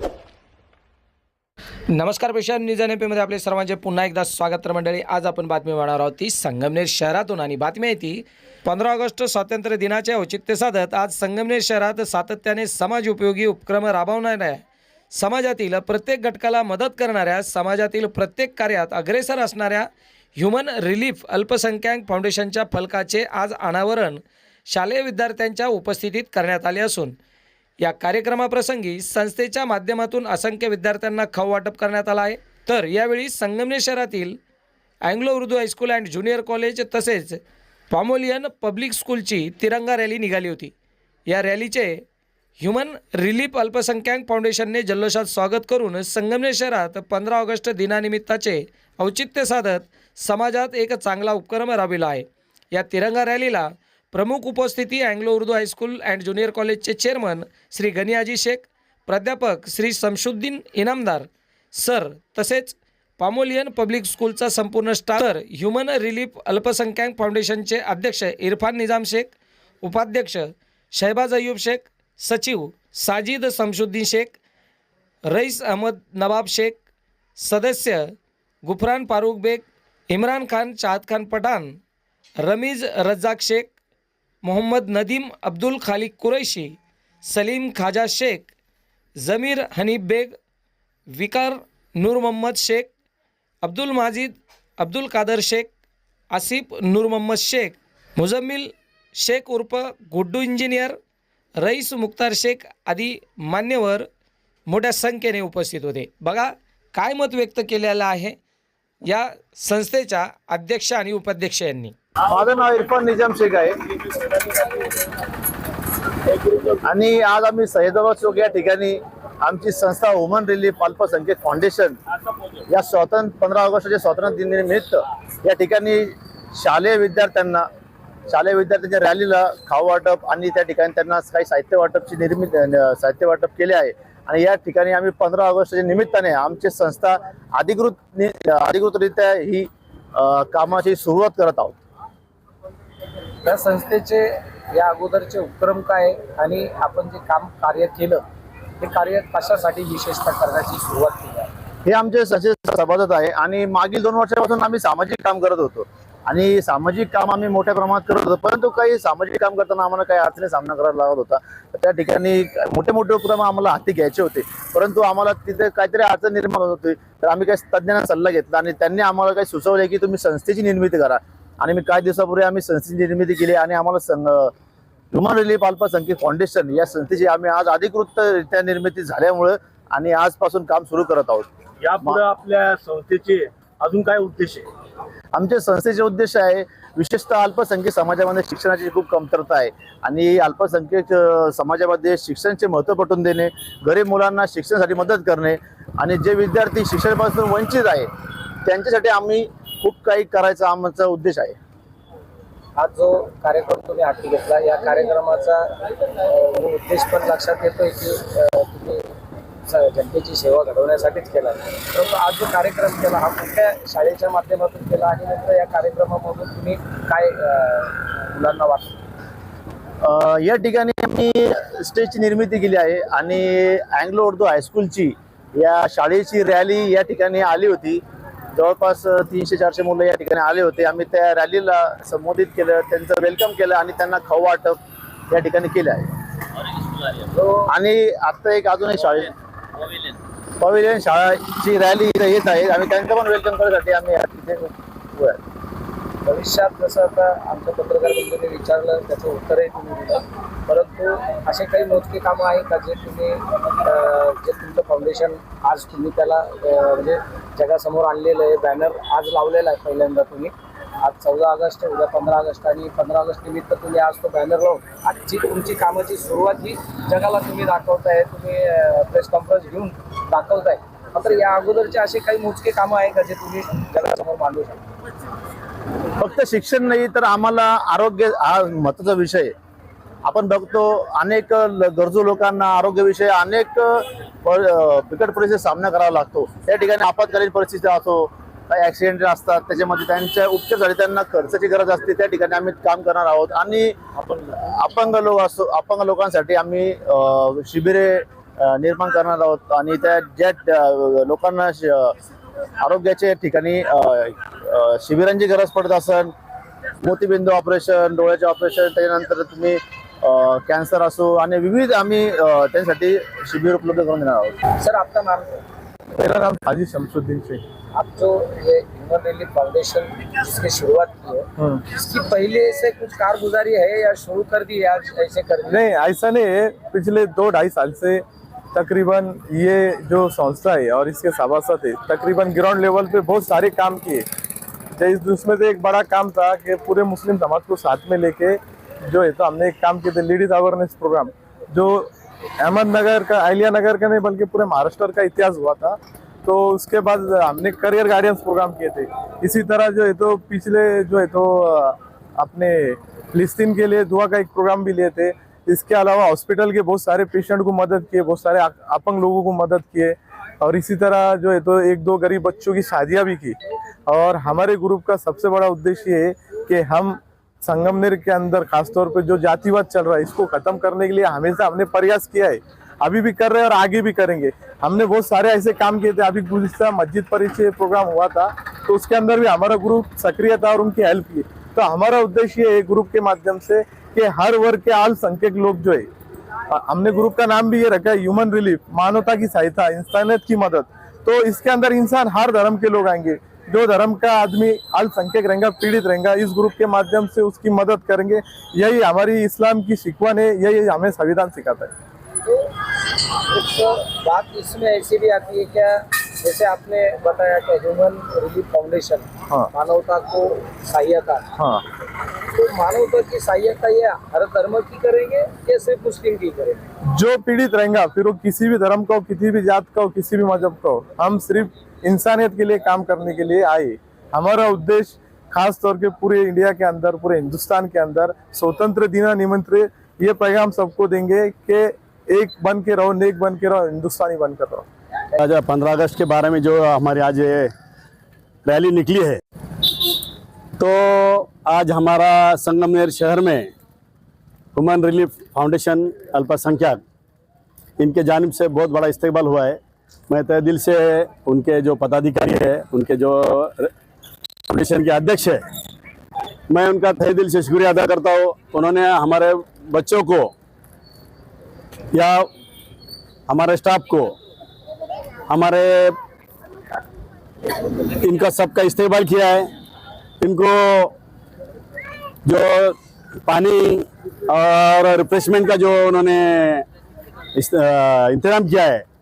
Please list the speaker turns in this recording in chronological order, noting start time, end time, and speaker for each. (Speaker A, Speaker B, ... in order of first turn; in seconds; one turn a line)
Speaker A: 1.9-27.2
Speaker A: 27.8-34.4
Speaker A: 35.0-37.4
Speaker A: 37.9-40.7
Speaker A: 41.3-42.0
Speaker A: 42.6-74.4
Speaker A: 75.3-76.8
Speaker A: 77.4-78.1
Speaker A: 78.6-81.8
Speaker A: 82.4-83.7
Speaker A: 84.4-88.5
Speaker A: 89.2-90.3
Speaker A: 91.1-92.9
Speaker A: 93.6-95.7
Speaker A: 96.3-101.0
Speaker A: 101.6-104.0
Speaker A: 104.7-108.4
Speaker A: 109.1-112.0
Speaker B: 112.3-113.8
Speaker B: 116.5-122.0
Speaker B: 122.7-127.7
Speaker B: 128.3-141.8
Speaker C: 143.4-148.2
Speaker C: 148.8-151.5
Speaker B: 151.9-174.5
Speaker B: 175.1-182.3
Speaker D: 181.8-184.7
Speaker B: 185.3-198.1
Speaker B: 198.7-201.6
Speaker C: 202.8-209.1
Speaker C: 209.7-219.0
Speaker B: 220.0-228.0
Speaker B: 228.5-234.8
Speaker B: 235.3-236.1
Speaker B: 236.7-240.1
Speaker C: 237.3-237.7
Speaker B: 240.6-245.4
Speaker C: 246.2-274.9
Speaker B: 276.2-279.5
Speaker B: 280.2-302.1
Speaker B: 302.8-306.3
Speaker B: 307.0-314.6
Speaker C: 314.8-315.6
Speaker E: 316.2-317.6
Speaker C: 317.9-325.8
Speaker E: 321.6-321.9
Speaker E: 325.7-334.2
Speaker E: 335.0-342.1
Speaker E: 342.6-363.6
Speaker E: 364.1-386.1
Speaker E: 386.7-401.9
Speaker C: 402.4-402.9
Speaker C: 403.4-411.5
Speaker E: 411.6-411.8
Speaker C: 412.5-416.9
Speaker E: 417.1-434.9
Speaker F: 435.4-437.7
Speaker F: 438.6-439.4
Speaker F: 440.8-443.7
Speaker F: 444.7-447.0
Speaker F: 448.0-449.8
Speaker F: 450.3-453.9
Speaker F: 454.7-455.6
Speaker F: 456.7-460.5
Speaker F: 462.1-462.5
Speaker F: 463.5-464.4
Speaker F: 465.5-466.2
Speaker F: 468.1-469.7
Speaker F: 470.4-471.1
Speaker F: 472.4-476.9
Speaker F: 477.6-479.0